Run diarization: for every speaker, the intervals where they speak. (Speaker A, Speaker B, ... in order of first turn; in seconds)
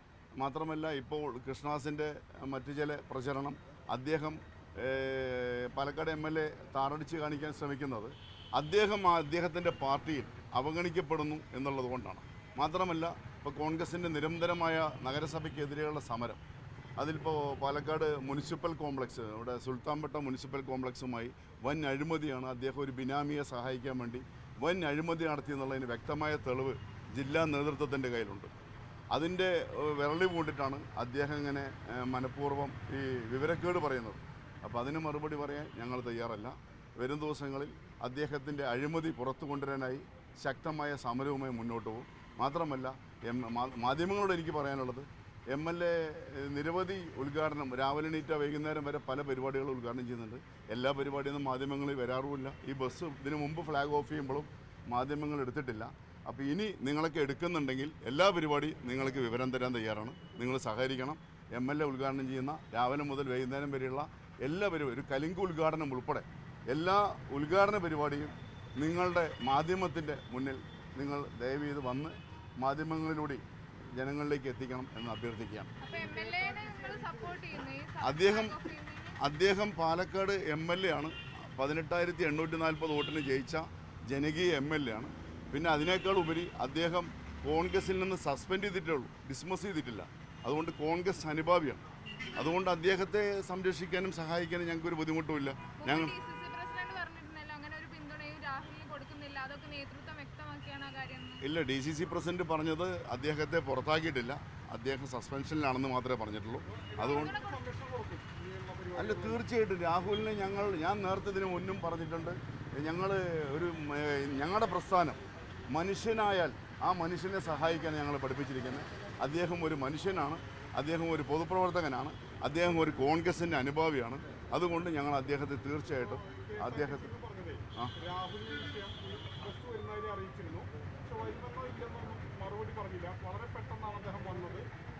Speaker A: 0.4-16.4, 17.0-28.5, 29.1-75.7, 78.0-78.6, 79.2-91.8, 92.3-96.1, 101.4-107.3, 108.9-115.2, 115.7-127.1
Speaker B: 75.8-79.2, 95.8-101.4, 107.0-107.6
Speaker C: 75.9-77.6, 106.7-109.4, 126.0-134.7